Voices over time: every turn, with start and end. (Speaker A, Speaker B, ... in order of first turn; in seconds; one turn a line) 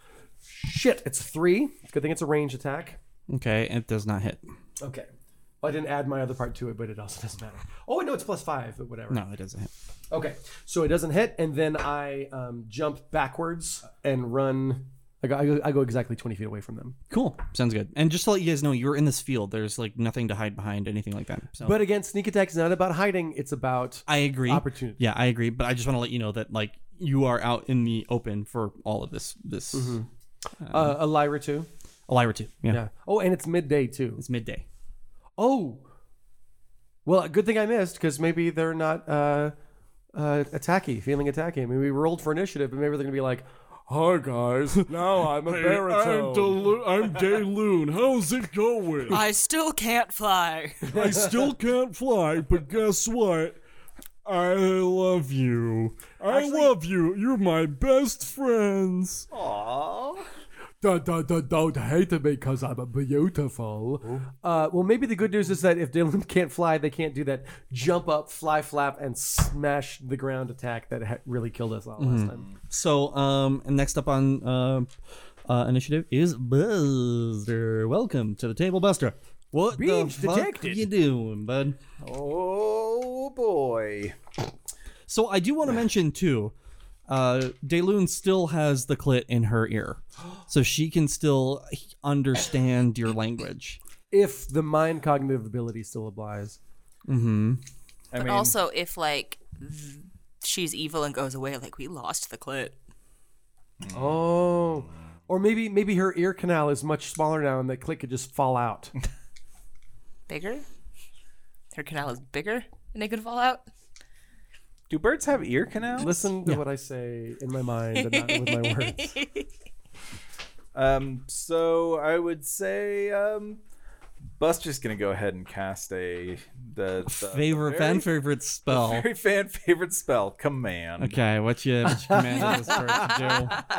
Speaker A: 0.5-3.0
Speaker B: 3.3-4.4
Speaker A: 4.8-5.1
Speaker A: 5.6-9.2
Speaker B: 9.1-9.7
Speaker A: 10.1-17.0
Speaker B: 17.1-21.8
Speaker A: 21.6-25.0
Speaker B: 24.1-30.0
Speaker A: 29.7-30.1
Speaker B: 30.7-31.0
Speaker A: 30.7-31.7
Speaker B: 32.1-32.8
Speaker A: 32.7-34.2
Speaker B: 34.2-34.6
Speaker A: 35.4-35.9
Speaker A: 37.0-39.5
Speaker A: 40.1-47.2
Speaker C: 45.3-49.2
Speaker C: 50.8-53.6
Speaker A: 50.9-51.5
Speaker C: 54.2-59.3
Speaker A: 56.3-56.7
Speaker D: 59.3-60.2
Speaker A: 60.8-72.4
Speaker B: 72.0-74.9
Speaker B: 75.5-81.8
Speaker A: 79.7-80.9
Speaker D: 82.0-84.1
Speaker B: 85.1-86.5
Speaker B: 87.1-93.8
Speaker A: 94.1-96.6
Speaker B: 97.1-97.6
Speaker D: 98.1-98.5
Speaker E: 98.1-102.8
Speaker D: 103.8-104.2
Speaker A: 103.9-108.9
Speaker E: 110.3-110.7
Speaker E: 111.7-113.7
Speaker D: 114.9-116.2
Speaker A: 116.0-119.2
Speaker E: 118.0-119.5
Speaker D: 120.7-123.6
Speaker D: 124.4-128.1
Speaker B: 127.1-129.1
Speaker D: 128.7-131.2
Speaker B: 131.0-133.7
Speaker A: 131.9-132.7